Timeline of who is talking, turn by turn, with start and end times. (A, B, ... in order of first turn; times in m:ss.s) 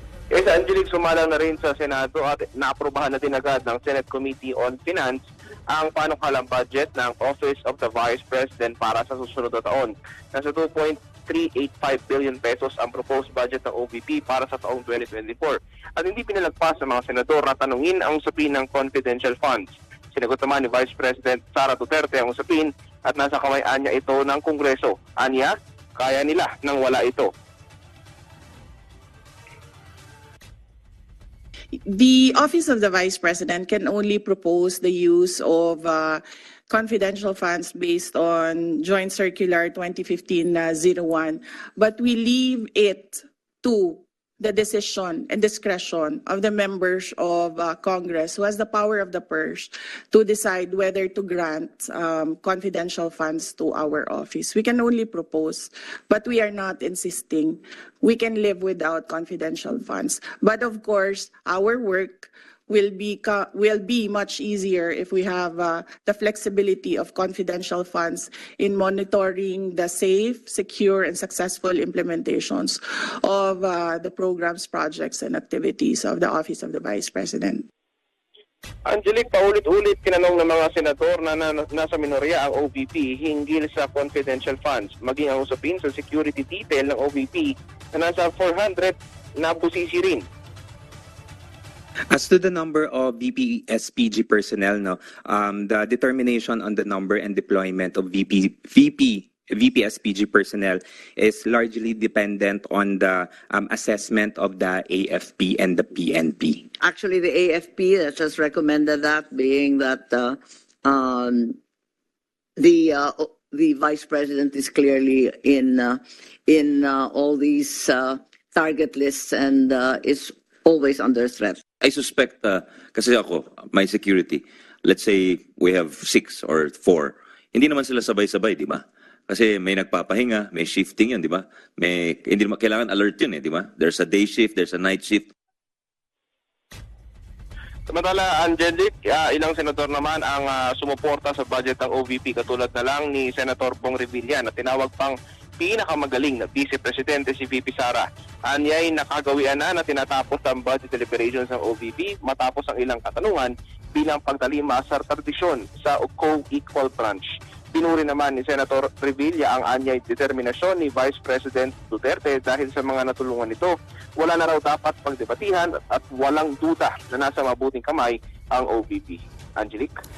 0:00.3-0:27.3 A
0:31.9-1:17.6 B
1:18.9-1:30.3 A
1:32.1-1:46.7 C
1:46.8-1:51.6 D
1:52.6-2:01.6 D
2:01.8-2:15.3 E
2:17.9-2:49.9 A